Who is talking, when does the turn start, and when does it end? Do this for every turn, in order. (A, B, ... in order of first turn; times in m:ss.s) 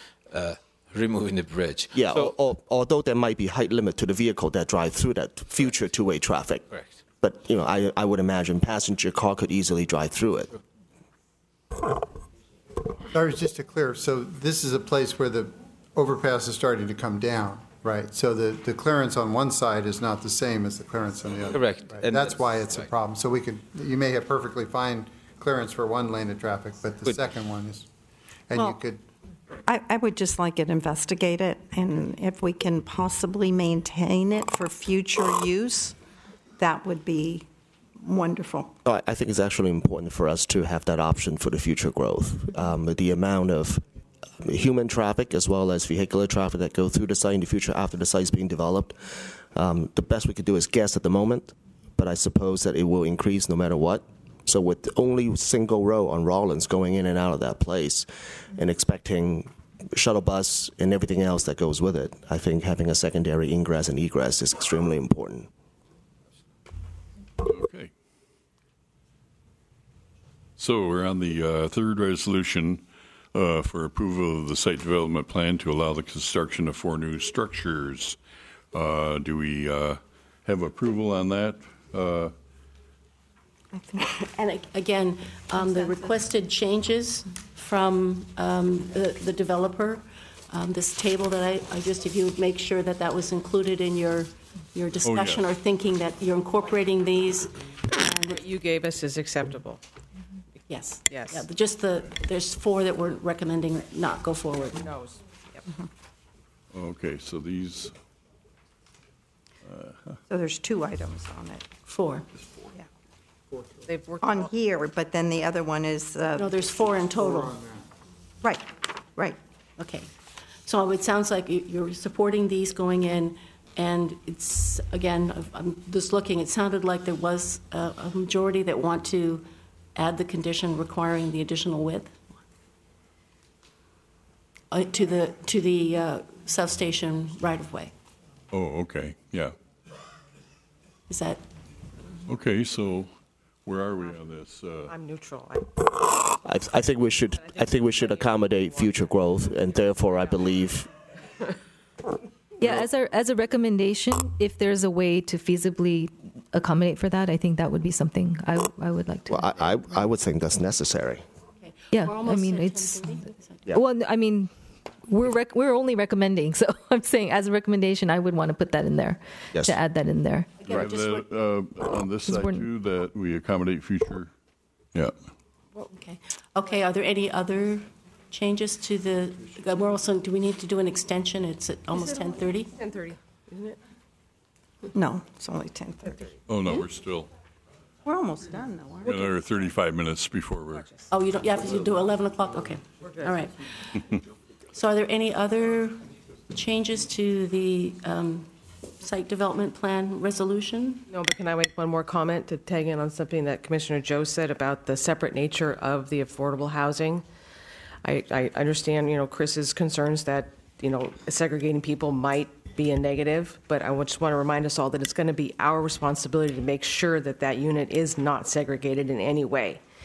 0:00.3-0:02.4 A
0:01.9-0:06.7 B
0:06.7-0:07.0 A
0:07.2-0:10.5 B
0:13.1-0:27.9 C
0:21.4-0:22.9 A
0:28.5-0:29.0 C
0:29.7-0:36.0 D
0:36.6-0:37.5 D
0:38.0-0:38.7 D
0:38.8-0:43.8 B
0:44.4-1:05.5 B
1:07.4-1:07.9 E
1:10.6-1:18.2 E
1:18.7-1:22.3 E
1:23.8-1:24.0 D
1:24.2-1:38.4 F
1:25.7-1:26.0 D
1:35.0-1:35.4 E
1:38.3-1:39.8 G
1:40.7-1:44.9 F
1:41.1-1:41.4 G
1:44.8-1:45.6 G
1:46.7-1:47.9 E
1:49.6-1:50.1 E
1:50.3-1:51.6 D
1:51.9-1:52.2 F
1:53.9-1:54.5 G
1:54.2-1:56.6 D
1:56.4-1:57.6 F
1:57.2-1:57.7 C
1:58.4-1:59.4 D
1:59.8-2:00.1 F
2:00.6-2:12.2 F
2:14.7-2:17.9 F
2:18.5-2:19.5 E
2:21.1-2:21.4 F
2:22.3-2:23.1 E
2:23.6-2:25.0 E
2:24.9-2:25.8 G
2:26.2-2:30.9 B
2:27.4-2:29.1 G
2:32.6-2:39.5 H
2:39.3-2:41.2 B
2:41.6-2:43.7 F
2:41.9-2:44.5 H
2:45.1-2:50.7 H
2:50.6-2:51.2 F
2:50.7-2:54.3 E
2:52.2-2:52.7 H
2:55.9-3:02.7 F
3:02.8-3:03.8 G
3:04.9-3:06.3 D
3:06.5-3:07.3 E
3:08.0-3:09.3 D
3:09.0-3:10.9 E
3:11.1-3:14.2 F
3:14.7-3:18.5 F
3:19.0-3:21.1 F
3:21.1-3:27.2 G
3:28.0-3:39.8 G